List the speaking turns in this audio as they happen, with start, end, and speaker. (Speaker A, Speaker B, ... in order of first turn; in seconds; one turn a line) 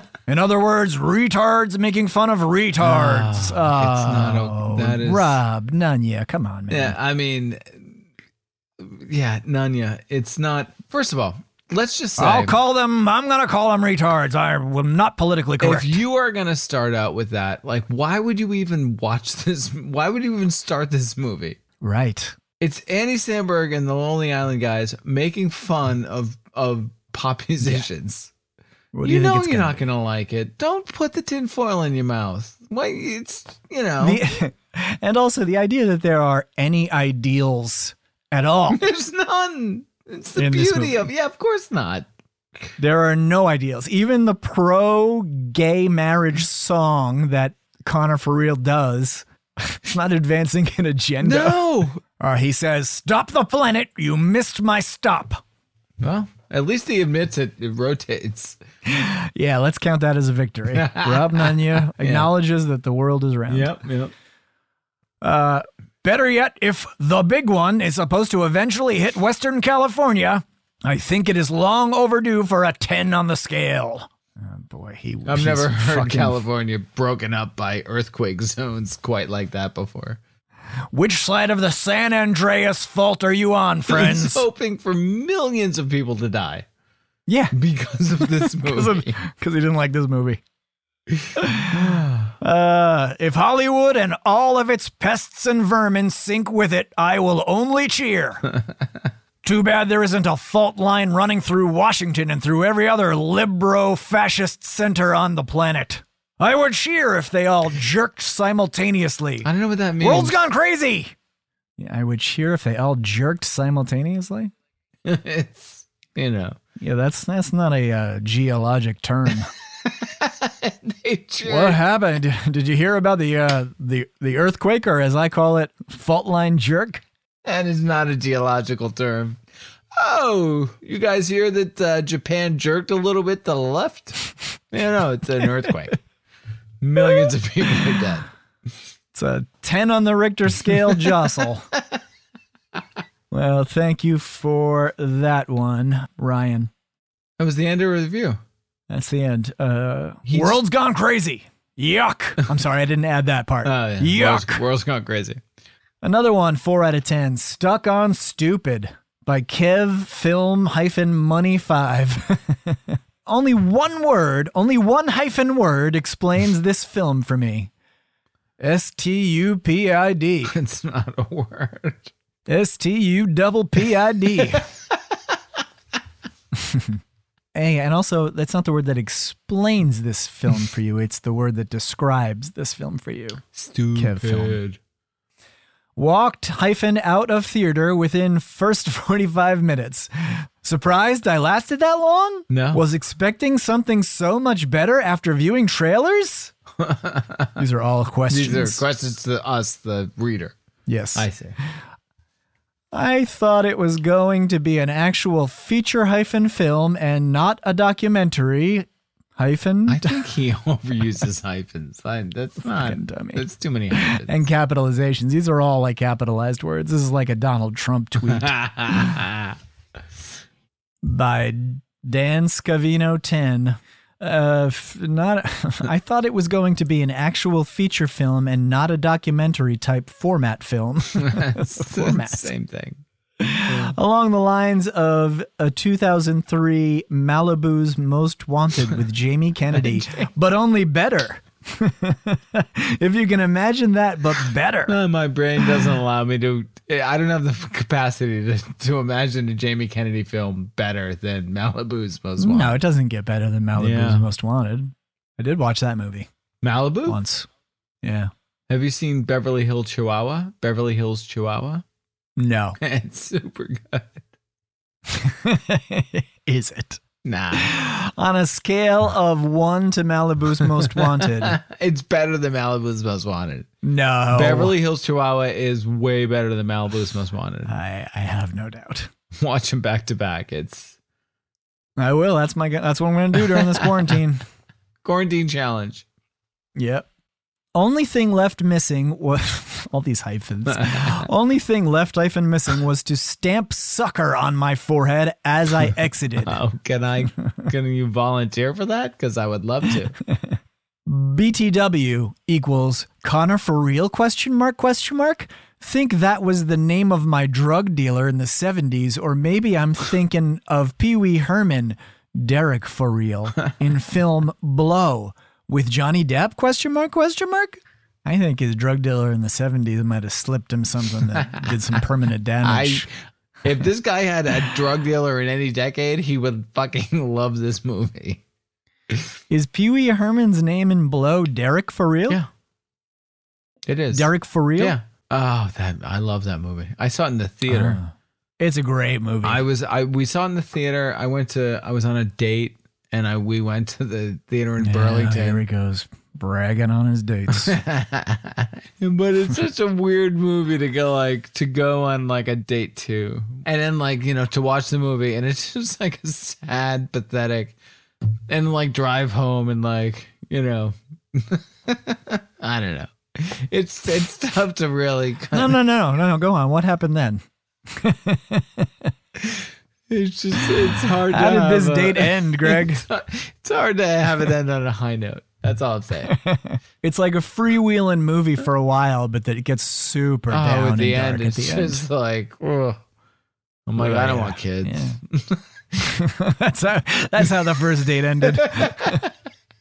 Speaker A: 0.3-7.0
Speaker B: 2.8-5.4
Speaker B: 6.7-8.0
Speaker B: 8.8-12.6
Speaker A: 12.2-16.0
Speaker B: 15.6-21.6
Speaker A: 21.8-22.4
Speaker B: 22.6-28.3
Speaker A: 28.9-29.8
Speaker B: 29.0-34.2
Speaker A: 34.0-38.8
Speaker B: 38.7-42.1
Speaker A: 40.4-41.1
Speaker A: 42.8-51.6
Speaker B: 51.2-52.0
Speaker A: 52.2-55.4
Speaker B: 56.0-58.6
Speaker A: 58.9-63.8
Speaker B: 60.7-62.3
Speaker B: 63.5-64.1
Speaker A: 65.2-76.4
Speaker B: 75.3-80.2
Speaker A: 80.9-84.5
Speaker B: 83.9-86.7
Speaker A: 87.3-87.5
Speaker B: 87.5-89.1
Speaker A: 88.2-90.4
Speaker A: 91.3-98.4
Speaker B: 91.7-92.3
Speaker A: 99.4-111.1
Speaker B: 109.4-110.4
Speaker A: 111.8-114.5
Speaker B: 115.0-116.6
Speaker A: 116.8-119.5
Speaker B: 119.8-121.8
Speaker A: 121.4-127.0
Speaker B: 127.4-129.4
Speaker B: 129.9-136.0
Speaker B: 136.8-138.3
Speaker A: 139.1-141.7
Speaker A: 143.3-146.7
Speaker B: 147.4-148.4
Speaker A: 148.9-154.6
Speaker B: 150.3-150.6
Speaker B: 153.6-155.4
Speaker A: 156.0-167.7
Speaker A: 168.6-170.5
Speaker B: 170.5-172.1
Speaker A: 172.5-174.7
Speaker A: 176.6-177.0
Speaker A: 177.5-183.4
Speaker B: 183.5-184.8
Speaker A: 183.9-184.6
Speaker A: 185.9-196.5
Speaker B: 192.5-192.8
Speaker B: 196.8-197.6
Speaker A: 197.6-198.8
Speaker B: 198.3-200.5
Speaker A: 200.9-201.3
Speaker B: 201.2-201.6
Speaker A: 202.9-210.3
Speaker B: 209.9-214.3
Speaker A: 212.7-219.0
Speaker B: 218.3-219.6
Speaker A: 221.0-232.5
Speaker B: 231.2-233.0
Speaker A: 233.4-245.0
Speaker B: 233.7-233.9
Speaker B: 239.7-240.3
Speaker B: 244.9-252.8
Speaker A: 252.4-256.3
Speaker B: 253.8-254.2
Speaker B: 256.6-257.2
Speaker A: 257.1-257.5
Speaker A: 258.0-258.3
Speaker B: 258.7-261.8
Speaker A: 262.4-262.8
Speaker B: 262.8-264.2
Speaker A: 265.1-267.0
Speaker B: 267.2-267.7
Speaker A: 267.5-271.6
Speaker B: 270.8-273.7
Speaker A: 273.8-274.7
Speaker B: 274.3-277.7
Speaker A: 277.7-279.1
Speaker B: 279.4-280.9
Speaker A: 282.0-284.4
Speaker B: 285.0-286.0
Speaker A: 286.8-287.1
Speaker A: 287.7-296.6
Speaker B: 290.7-291.2
Speaker B: 296.4-300.1
Speaker A: 300.2-323.1
Speaker B: 322.6-323.1
Speaker B: 323.6-328.4
Speaker A: 329.5-332.4
Speaker B: 333.9-338.0
Speaker A: 334.1-334.9
Speaker A: 337.7-339.6
Speaker B: 339.4-345.6
Speaker A: 344.8-347.8
Speaker B: 347.5-357.8
Speaker B: 358.5-365.8
Speaker A: 365.5-369.1
Speaker B: 369.4-376.3
Speaker A: 370.9-373.0
Speaker A: 376.3-382.0
Speaker B: 380.5-383.0
Speaker B: 383.9-385.6
Speaker A: 384.0-385.2
Speaker A: 386.0-389.3
Speaker B: 388.6-389.2